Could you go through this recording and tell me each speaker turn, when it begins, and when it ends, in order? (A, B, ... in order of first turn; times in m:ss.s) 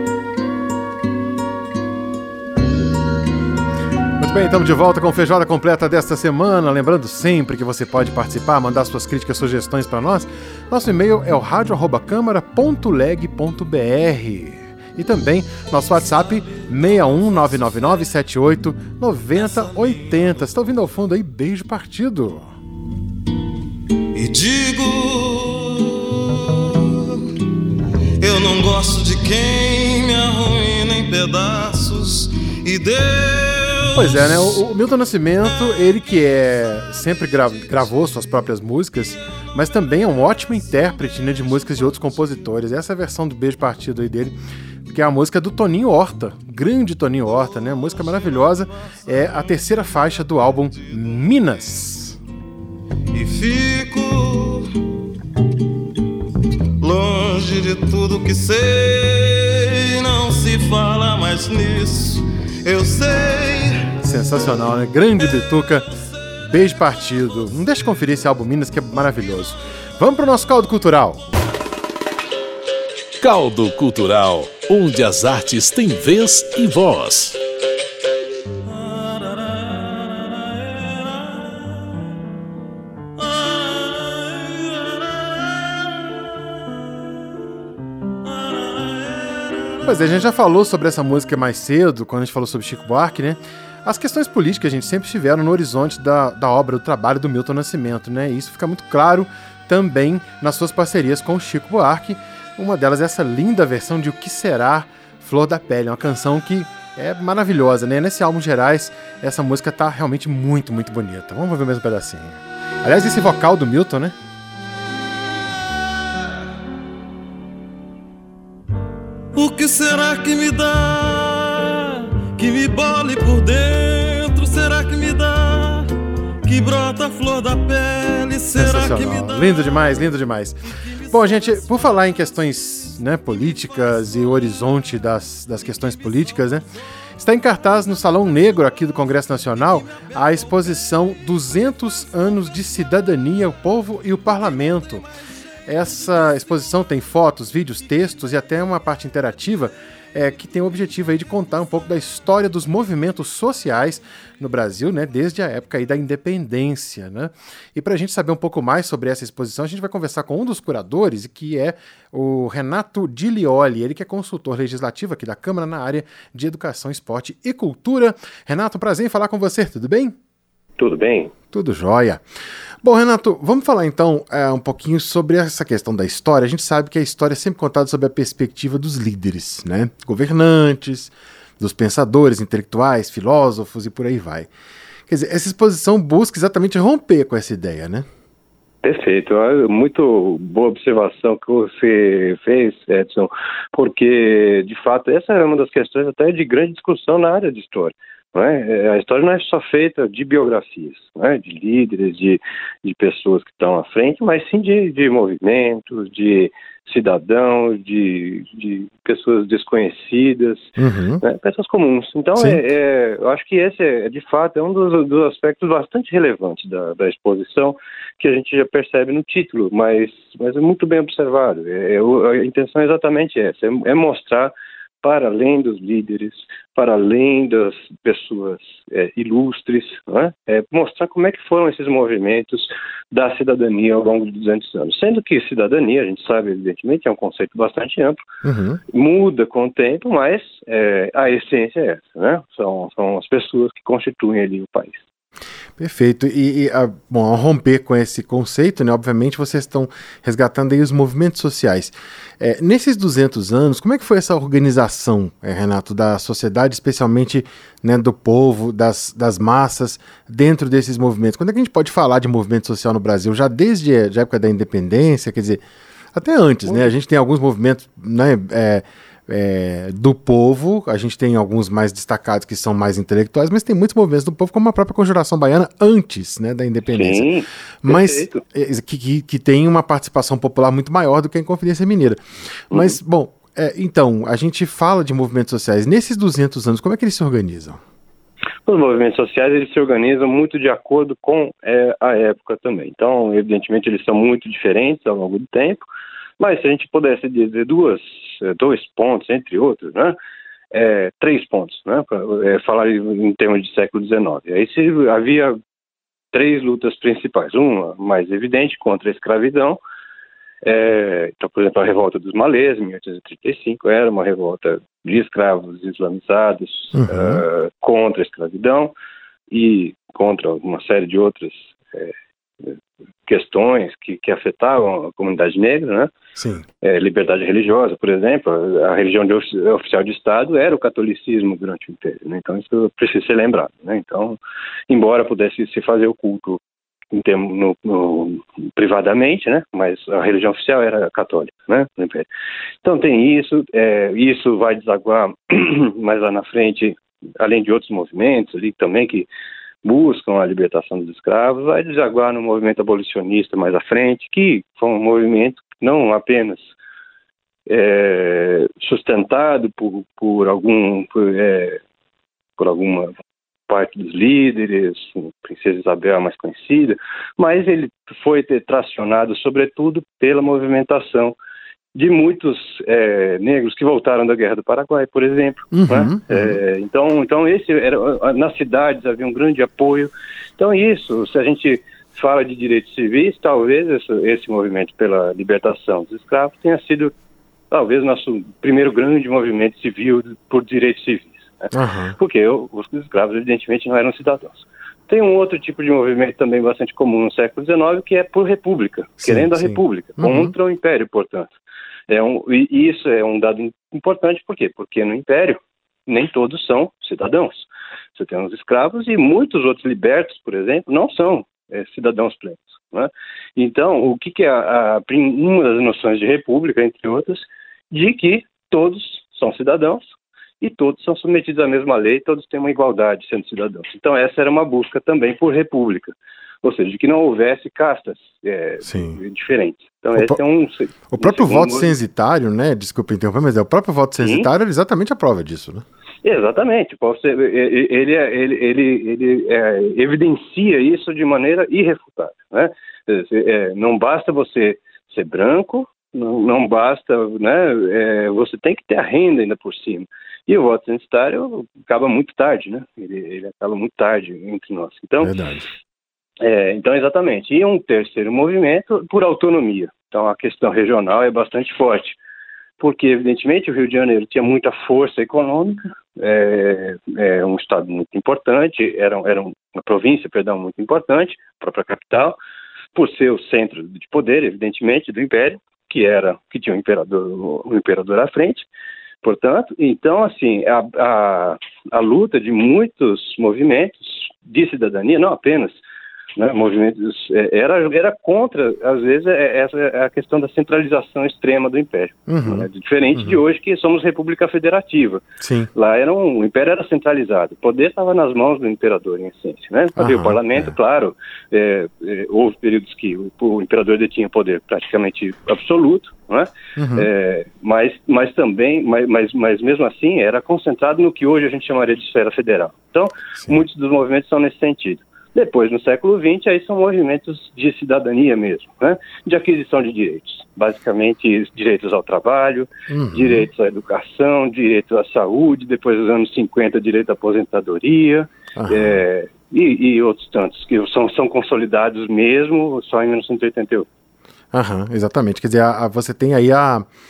0:04.2-0:22.5 A
0:24.1-0:27.3 B
0:28.2-0:34.4 B
0:34.0-0:52.2 A
0:53.1-0:54.7 B
0:56.8-1:03.9 B
1:04.0-1:05.9 A
1:06.5-1:11.2 A
1:13.2-1:17.4 C
1:23.4-1:24.4 B
1:29.8-1:54.2 A
1:59.4-2:05.9 B
2:06.4-2:09.7 B
2:08.6-2:16.6 A
2:17.2-2:25.1 A
2:25.7-2:50.2 A
2:50.8-2:51.3 D
2:51.5-2:52.2 A
2:52.8-3:04.5 A
3:05.1-3:08.1 A
3:08.8-3:30.7 D
3:30.8-3:31.2 A
3:31.2-3:58.2 D
3:32.4-3:32.6 A
3:58.4-3:58.8 A
3:58.9-4:05.0 D
4:05.8-4:25.6 A
4:26.1-4:37.3 A
4:36.9-4:38.4 D
4:37.8-4:42.2 A
4:42.7-4:43.0 D
4:42.7-4:47.8 A
4:48.7-4:55.9 D
4:56.4-5:00.2 D
5:00.7-5:05.6 D
5:06.3-5:09.8 D
5:10.6-5:18.9 D
5:17.0-5:17.4 A
5:19.5-5:26.1 D
5:26.4-5:26.7 A
5:26.8-5:36.6 D
5:37.1-5:42.3 D
5:42.8-5:49.3 D
5:49.8-5:56.6 D
5:57.7-6:01.8 D
6:02.6-6:03.1 D
6:03.7-6:11.4 D
6:11.9-6:27.1 D
6:15.7-6:16.6 A
6:27.7-6:41.6 D
6:31.7-6:32.2 A
6:39.2-6:40.5 A
6:42.1-7:12.0 D
7:08.8-7:09.2 A
7:10.1-7:10.4 A
7:11.1-7:15.8 A
7:14.2-7:14.5 D
7:16.2-7:35.3 D
7:35.2-7:35.7 A
7:36.4-7:42.2 D
7:42.8-7:52.4 D
7:52.9-7:58.7 D
7:59.2-8:05.8 D
8:06.4-8:15.2 D
8:12.3-8:13.4 A
8:15.4-8:15.7 A
8:15.7-8:53.9 D
8:20.0-8:20.7 A
8:26.8-8:27.1 A
8:42.9-8:43.5 A
8:48.6-8:49.0 A
8:54.5-8:56.9 A